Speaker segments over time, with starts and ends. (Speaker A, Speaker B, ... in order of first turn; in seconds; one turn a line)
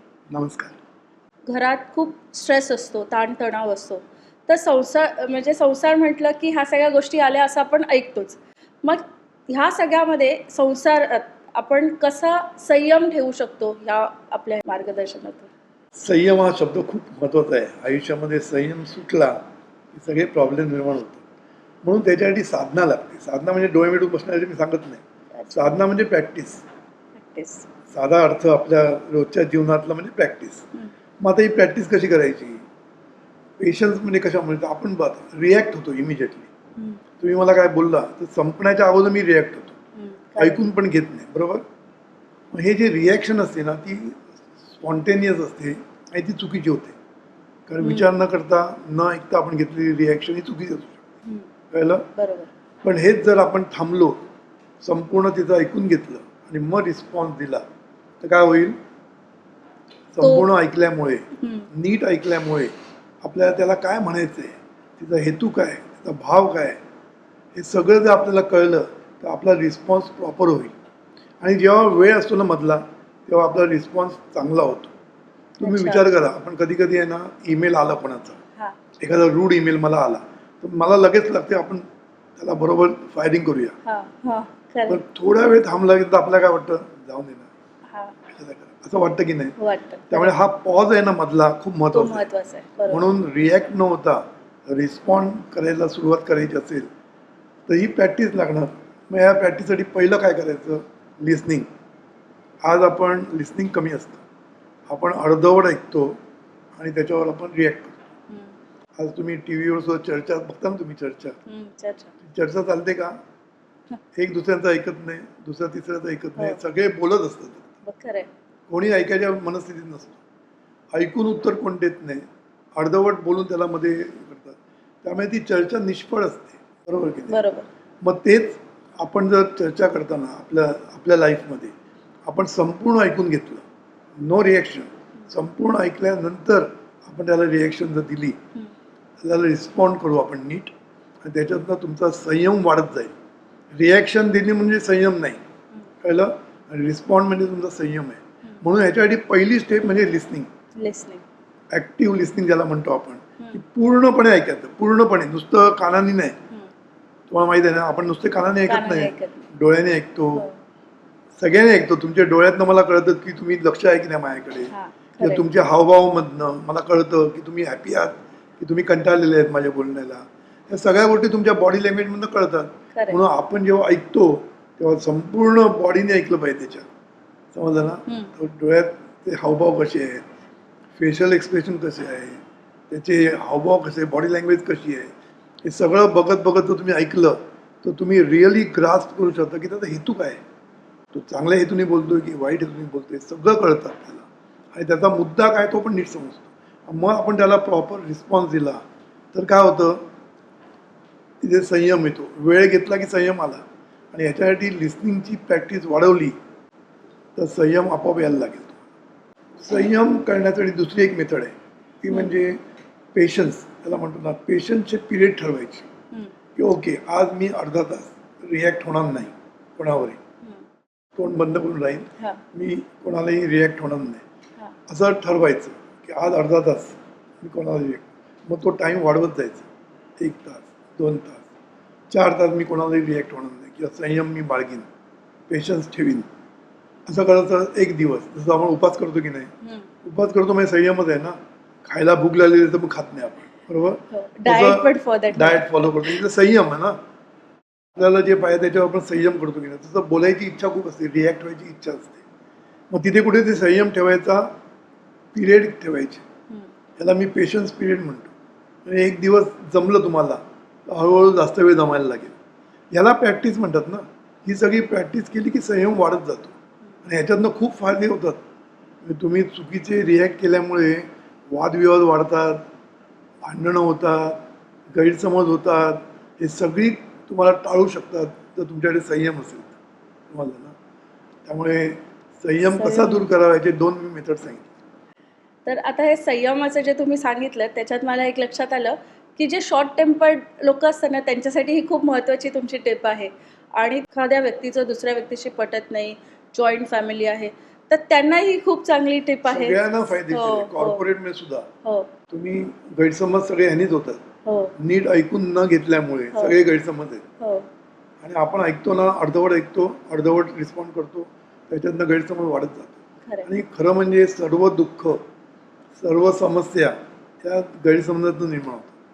Speaker A: 0.3-0.8
Speaker B: 1.5-15.5
Speaker A: 15.9-19.4
Speaker A: 19.9-21.2
Speaker A: 21.8-25.0
Speaker B: 25.4-25.8
Speaker A: 25.5-26.6
Speaker B: 27.2-27.7
Speaker A: 27.9-30.7
Speaker A: 31.2-32.6
Speaker A: 33.6-36.5
Speaker A: 37.2-39.7
Speaker B: 40.0-40.6
Speaker A: 40.4-41.6
Speaker A: 42.5-47.0
Speaker A: 47.7-51.0
Speaker B: 47.8-48.1
Speaker A: 51.7-52.0
Speaker B: 52.2-52.5
Speaker A: 52.8-54.2
Speaker A: 54.8-57.6
Speaker A: 58.2-58.8
Speaker A: 60.1-66.8
Speaker B: 60.2-60.5
Speaker B: 61.4-61.7
Speaker A: 67.5-70.7
Speaker A: 71.4-74.9
Speaker A: 75.6-78.4
Speaker B: 75.6-76.0
Speaker A: 79.0-81.8
Speaker A: 82.4-83.8
Speaker B: 83.8-85.0
Speaker A: 84.9-87.5
Speaker B: 87.9-88.2
Speaker A: 88.3-89.6
Speaker B: 89.6-90.3
Speaker A: 90.1-92.2
Speaker B: 91.9-93.0
Speaker A: 92.9-96.9
Speaker A: 97.7-101.7
Speaker A: 102.6-104.2
Speaker A: 104.9-106.2
Speaker A: 106.8-108.0
Speaker B: 108.3-108.5
Speaker A: 109.0-111.4
Speaker B: 111.5-112.1
Speaker A: 112.2-113.2
Speaker A: 114.2-117.7
Speaker B: 117.8-118.3
Speaker A: 118.7-120.2
Speaker A: 120.9-122.2
Speaker A: 122.8-127.4
Speaker B: 127.3-127.7
Speaker A: 128.0-131.7
Speaker A: 132.3-133.7
Speaker A: 134.2-138.4
Speaker A: 139.2-140.7
Speaker A: 141.2-143.1
Speaker A: 143.8-145.4
Speaker A: 146.0-150.5
Speaker B: 150.8-151.2
Speaker A: 151.7-156.4
Speaker A: 157.3-160.5
Speaker B: 158.7-159.4
Speaker A: 161.4-176.8
Speaker B: 164.7-165.4
Speaker A: 177.5-180.2
Speaker B: 178.1-178.3
Speaker A: 181.0-185.1
Speaker A: 185.7-190.4
Speaker A: 191.1-200.0
Speaker A: 201.4-206.4
Speaker A: 207.4-208.8
Speaker A: 209.6-212.6
Speaker A: 213.1-215.9
Speaker A: 216.6-220.2
Speaker A: 221.2-224.2
Speaker A: 224.9-229.7
Speaker A: 230.2-231.5
Speaker A: 232.1-234.9
Speaker A: 235.5-236.3
Speaker A: 237.1-239.5
Speaker A: 240.0-247.0
Speaker B: 244.1-245.7
Speaker A: 248.0-252.2
Speaker A: 252.9-254.5
Speaker A: 255.3-256.2
Speaker A: 257.0-258.3
Speaker A: 258.9-262.3
Speaker A: 262.9-266.5
Speaker A: 267.1-268.4
Speaker A: 269.0-272.6
Speaker A: 273.4-274.4
Speaker A: 274.9-279.8
Speaker A: 280.3-280.8
Speaker A: 281.5-284.7
Speaker B: 282.7-283.3
Speaker B: 285.7-301.0
Speaker A: 299.5-301.7
Speaker B: 301.9-302.1
Speaker A: 302.3-304.2
Speaker B: 304.4-304.7
Speaker A: 304.8-307.2
Speaker B: 307.4-307.7
Speaker A: 308.2-315.2
Speaker A: 316.0-318.9